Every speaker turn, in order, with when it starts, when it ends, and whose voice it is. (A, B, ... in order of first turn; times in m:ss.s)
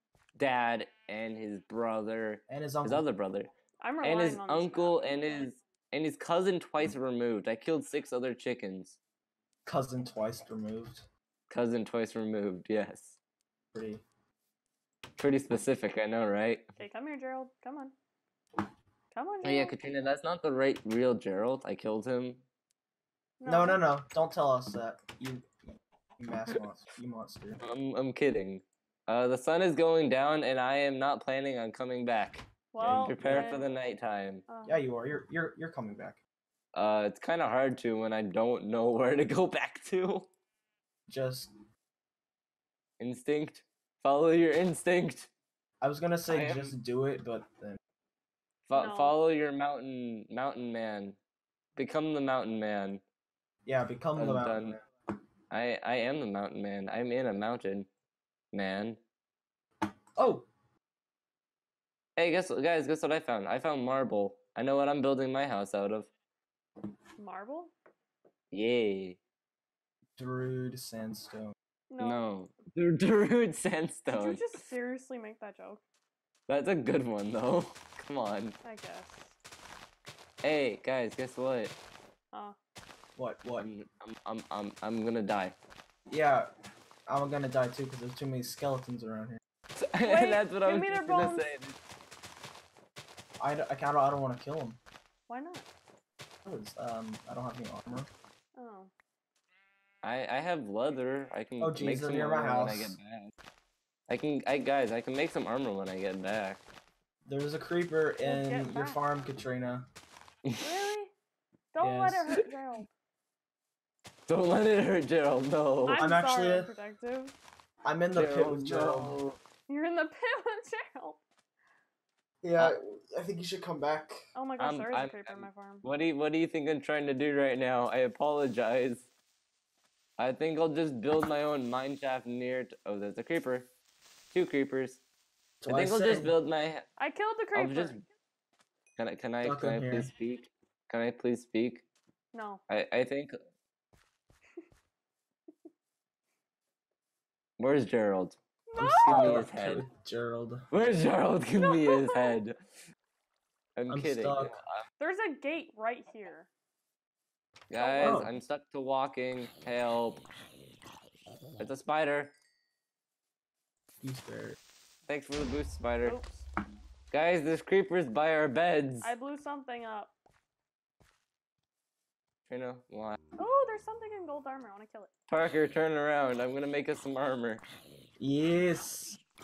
0:00.4-0:03.5 A
0:02.5-0:03.0 B
0:03.8-0:05.5 C
0:04.0-0:09.0 A
0:09.6-0:11.1 B
0:11.5-0:13.2 A
0:13.7-0:14.0 B
0:15.2-0:16.6 A
0:16.8-0:17.9 C
0:19.1-0:19.8 C
0:19.4-0:22.4 A
0:23.4-0:23.8 C
0:23.4-0:27.6 B
0:27.6-0:34.4 A
0:32.7-0:33.7 C
0:32.8-0:33.5 B
0:34.5-0:34.8 C
0:34.6-0:36.2 B
0:36.7-0:40.3 A
0:41.1-0:41.5 B
0:43.0-0:45.3 A
0:45.8-0:47.8 B
0:46.3-0:46.8 A
0:48.6-0:51.2 A
0:48.7-0:49.1 C
0:51.8-0:53.0 A
0:53.6-0:54.8 B
0:54.2-0:54.8 A
0:55.5-0:57.9 A
0:58.5-0:59.0 A
1:00.2-1:00.5 B
1:02.2-1:06.1 A
1:07.2-1:07.7 C
1:08.5-1:09.2 A
1:10.2-1:11.5 B
1:11.9-1:12.3 C
1:12.0-1:14.5 A
1:14.1-1:15.8 C
1:16.5-1:18.6 A
1:18.6-1:19.4 C
1:20.4-1:21.8 A
1:23.2-1:23.7 B
1:23.6-1:25.6 A
1:26.1-1:26.5 B
1:27.1-1:29.4 B
1:29.8-1:31.8 A
1:30.0-1:31.5 C
1:33.4-1:34.8 B
1:35.3-1:35.7 C
1:36.4-1:38.1 B
1:38.6-1:38.9 C
1:40.0-1:43.3 A
1:41.6-1:43.0 B
1:44.1-1:46.6 A
1:47.2-1:49.8 B
1:48.2-1:49.3 C
1:50.6-1:51.1 C
1:51.7-1:52.9 C
1:51.8-1:52.3 B
1:54.3-1:56.1 A
1:55.8-1:57.3 C
1:56.0-1:56.7 B
1:57.8-1:59.2 B
1:58.2-1:59.4 A
1:59.7-2:01.2 C
2:02.4-2:04.2 B
2:04.3-2:05.8 C
2:04.6-2:09.1 A
2:10.2-2:13.7 A
2:14.3-2:15.0 A
2:15.6-2:16.3 B
2:15.7-2:16.8 A
2:17.0-2:18.0 C
2:17.5-2:18.0 A
2:19.0-2:21.8 A
2:19.4-2:20.1 B
2:22.3-2:22.6 C
2:22.7-2:23.3 A
2:27.6-2:28.4 A
2:28.7-2:29.4 C
2:28.8-2:30.9 B
2:29.0-2:29.8 A
2:30.7-2:32.6 A
2:31.6-2:32.4 C
2:33.8-2:34.8 A
2:33.9-2:34.5 B
2:35.0-2:36.5 C
2:37.7-2:40.2 A
2:37.8-2:38.2 C
2:38.0-2:38.3 B
2:41.6-2:42.3 A
2:44.0-2:44.6 B
2:45.1-2:46.2 A
2:46.0-2:46.4 C
2:47.1-2:49.1 A
2:49.0-2:50.1 C
2:52.4-2:53.2 A
2:53.4-2:55.1 C
2:55.3-2:57.6 A
2:58.2-2:59.2 B